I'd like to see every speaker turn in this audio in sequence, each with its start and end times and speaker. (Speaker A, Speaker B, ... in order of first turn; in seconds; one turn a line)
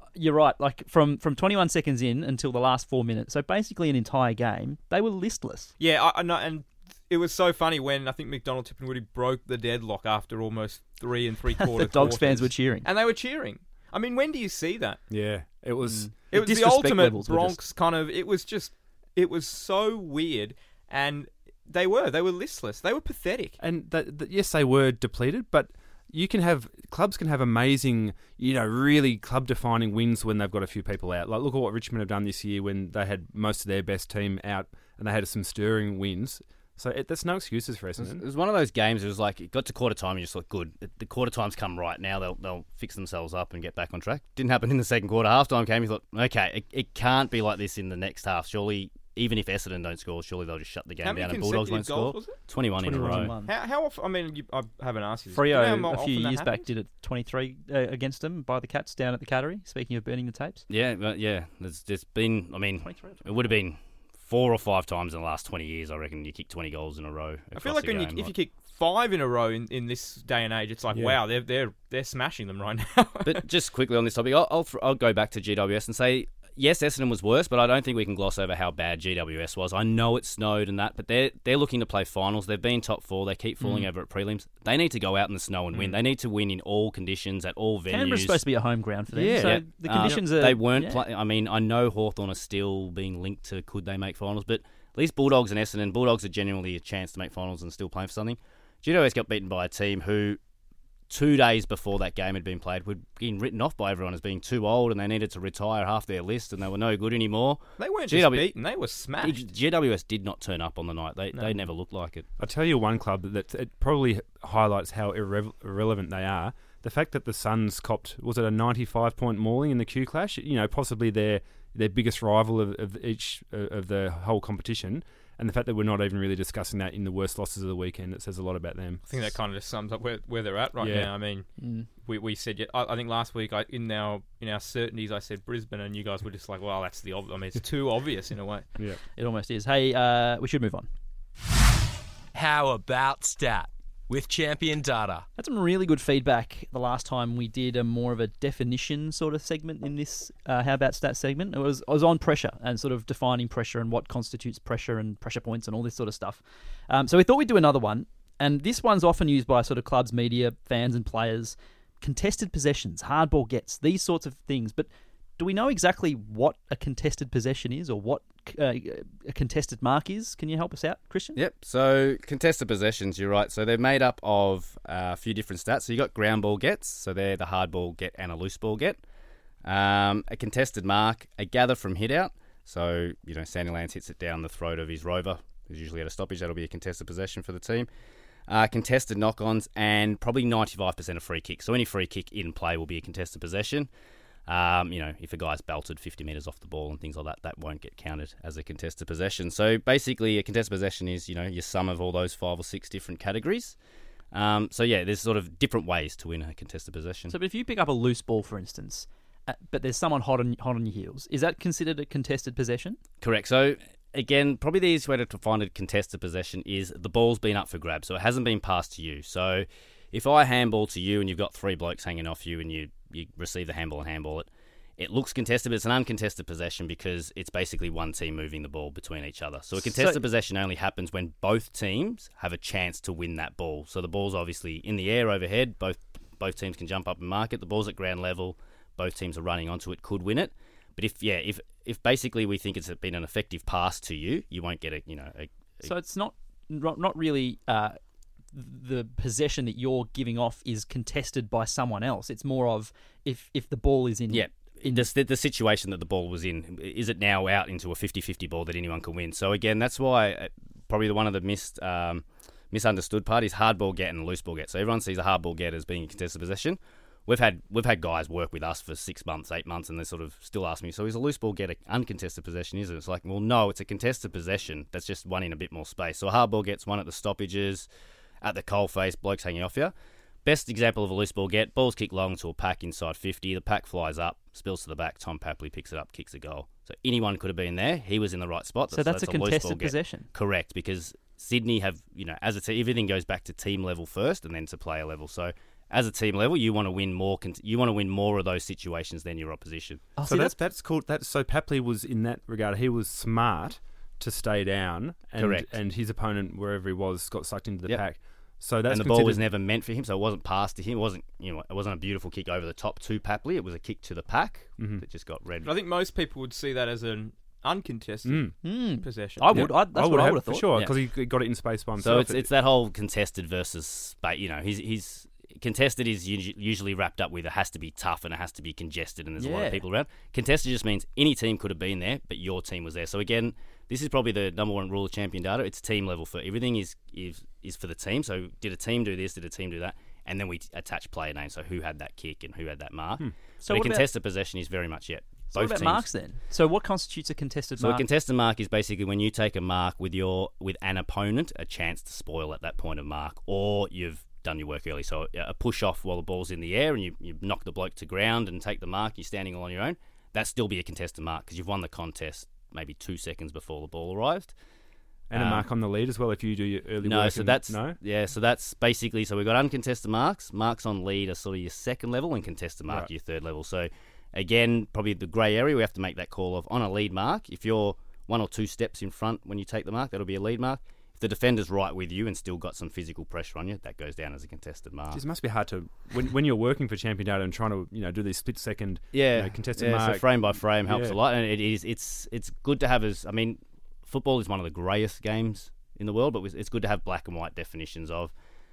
Speaker A: 0.1-5.7
Speaker B: 5.8-15.0
Speaker A: 11.6-12.9
Speaker C: 15.1-16.1
Speaker A: 15.8-17.6
Speaker B: 16.3-23.6
Speaker C: 23.6-38.2
Speaker D: 38.0-53.3
Speaker B: 51.0-52.4
Speaker C: 52.8-53.3
Speaker A: 52.8-53.5
Speaker B: 53.5-56.7
Speaker A: 55.3-60.6
Speaker D: 60.7-68.3
Speaker A: 62.8-63.2
Speaker B: 67.5-73.4
Speaker C: 70.9-71.2
Speaker D: 73.2-88.4
Speaker A: 87.9-91.0
Speaker C: 89.1-90.2
Speaker D: 89.4-100.4
Speaker D: 101.1-108.5
Speaker B: 107.8-109.5
Speaker D: 109.2-112.2
Speaker C: 112.4-129.0
Speaker B: 129.1-138.7
Speaker C: 130.8-131.1
Speaker A: 131.6-131.9
Speaker A: 139.2-140.9
Speaker E: 142.3-145.2
Speaker A: 145.4-171.4
Speaker D: 171.3-179.0
Speaker D: 179.6-187.9
Speaker D: 188.5-193.9
Speaker D: 194.5-203.8
Speaker D: 204.3-207.3
Speaker A: 207.3-213.0
Speaker D: 213.2-245.9
Speaker A: 229.9-230.2
Speaker A: 245.8-248.0
Speaker A: 248.5-255.1
Speaker D: 254.3-277.9
Speaker D: 278.4-279.9
Speaker D: 280.4-300.1
Speaker A: 288.9-290.3
Speaker A: 300.1-300.6
Speaker C: 300.2-309.4
Speaker D: 305.4-305.7
Speaker D: 308.9-315.7
Speaker C: 314.8-315.0
Speaker B: 315.6-319.6
Speaker C: 318.2-318.5
Speaker A: 318.6-320.8
Speaker C: 319.5-322.4
Speaker D: 322.0-346.1
Speaker A: 329.4-329.8
Speaker A: 343.6-344.0
Speaker A: 345.5-348.0
Speaker D: 347.8-364.5
Speaker C: 365.3-368.0
Speaker D: 365.3-365.6
Speaker D: 367.0-385.2
Speaker C: 385.1-390.2
Speaker D: 389.1-398.3
Speaker C: 390.8-391.1